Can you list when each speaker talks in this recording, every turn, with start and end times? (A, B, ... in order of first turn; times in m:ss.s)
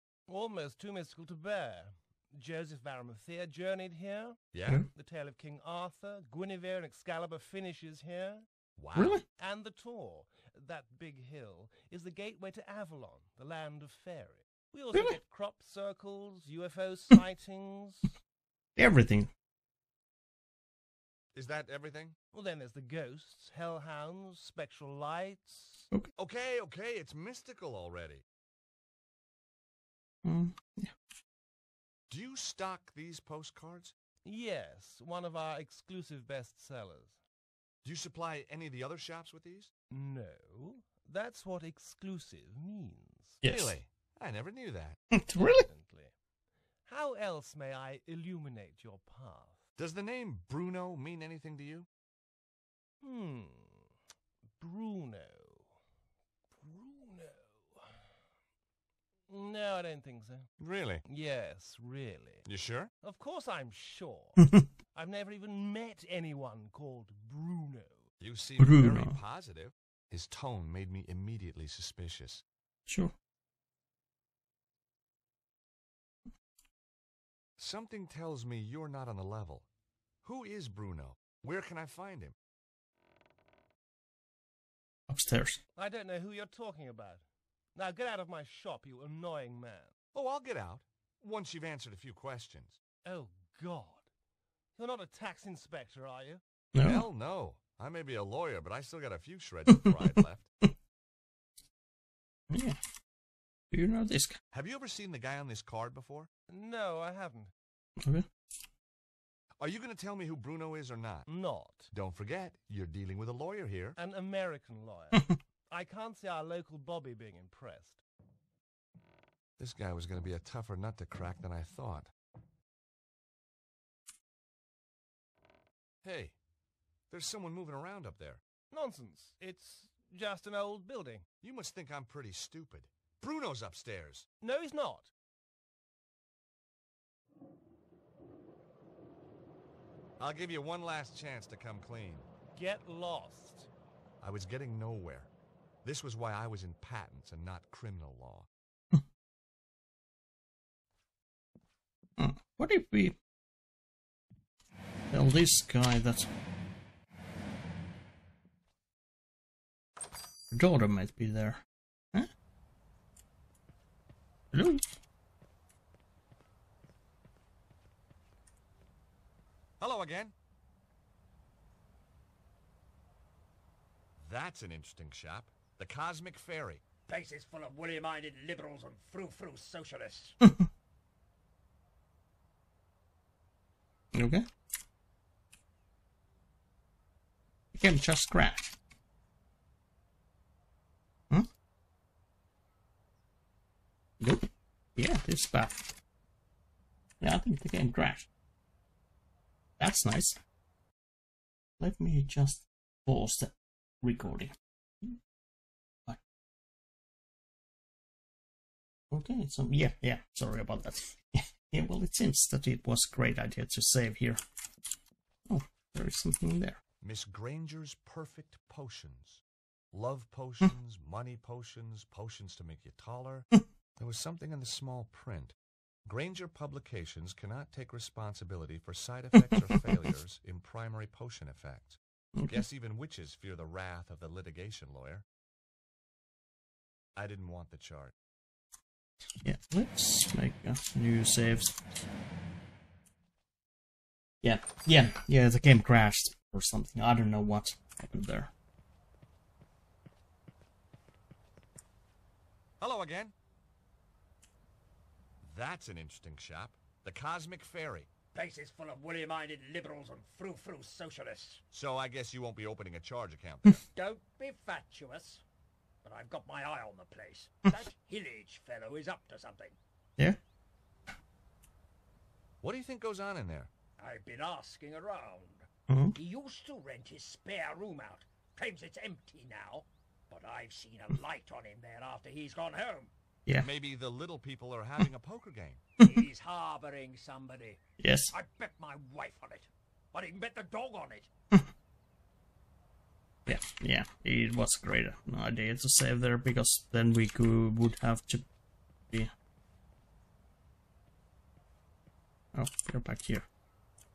0:00.3-0:08.5 A
0:04.5-0:04.8 B
0:08.8-0:09.2 B
0:09.0-0:09.2 C
0:09.4-0:18.1 A
0:18.8-0:19.3 C
0:21.4-0:22.2 B
0:22.3-0:25.9 A
0:26.2-0:28.2 B
0:30.2-0:30.9 C
0:32.1-0:34.0 B
0:34.2-0:37.2 A
0:37.8-0:39.7 B
0:39.9-0:43.4 A
0:43.4-0:43.8 C
0:43.4-0:45.0 B
0:45.1-0:45.7 C
0:45.4-0:46.1 A
0:46.8-0:49.6 A
0:49.8-0:51.9 B
0:53.0-0:53.9 A
0:54.6-0:55.8 A
0:56.5-0:58.1 A
0:59.3-1:00.5 A
1:00.6-1:01.0 B
1:01.1-1:02.4 A
1:02.4-1:02.9 B
1:03.0-1:04.4 A
1:04.4-1:04.7 C
1:04.9-1:08.1 A
1:08.2-1:12.4 B
1:08.6-1:09.2 C
1:12.9-1:13.1 C
1:17.6-1:19.6 B
1:20.2-1:22.4 B
1:25.1-1:25.6 C
1:25.8-1:30.0 A
1:30.1-1:32.8 B
1:33.0-1:34.1 A
1:34.8-1:36.4 A
1:36.8-1:37.1 C
1:36.8-1:40.5 B
1:42.5-1:42.8 C
1:43.7-1:44.4 C
1:44.5-1:46.3 B
1:46.5-1:47.5 A
1:48.0-1:48.3 C
1:49.6-1:51.3 B
1:51.3-1:51.9 A
1:51.9-1:54.0 B
1:54.0-1:58.0 A
1:59.6-2:02.1 B
2:06.0-2:06.3 B
2:07.1-2:08.4 B
2:08.7-2:11.3 A
2:11.4-2:14.3 B
2:14.4-2:15.1 A
2:20.2-2:22.3 B
2:22.5-2:23.7 A
2:24.2-2:25.3 B
2:25.8-2:28.5 B
2:32.2-2:33.2 C
2:35.1-2:36.3 C
2:40.5-2:42.3 C
2:44.5-2:44.8 C
2:49.8-2:50.3 B
2:54.2-2:56.8 B
2:57.1-3:00.4 D
3:00.4-3:00.7 C
3:04.1-3:04.4 C
3:07.8-3:08.8 C
3:14.2-3:15.9 C
3:17.2-3:18.3 C
3:19.8-3:20.4 C
3:21.8-3:25.2 C
3:29.1-3:34.4 C
3:35.5-3:36.8 C
3:37.0-3:45.6 B
3:46.1-3:55.2 B
3:52.4-3:52.6 C
3:57.2-3:58.1 B
3:59.4-4:01.8 C
4:04.4-4:08.5 C
4:12.8-4:13.3 B
4:15.4-4:18.1 B
4:18.3-4:21.6 D
4:21.7-4:23.8 B
4:23.9-4:25.4 D
4:26.0-4:29.8 D
4:32.6-4:33.7 B
4:34.0-4:43.1 D
4:35.9-4:36.2 C
4:43.6-4:45.8 B
4:46.0-4:51.3 D
4:48.0-4:48.3 C
4:53.5-4:58.4 C
5:02.6-5:03.5 C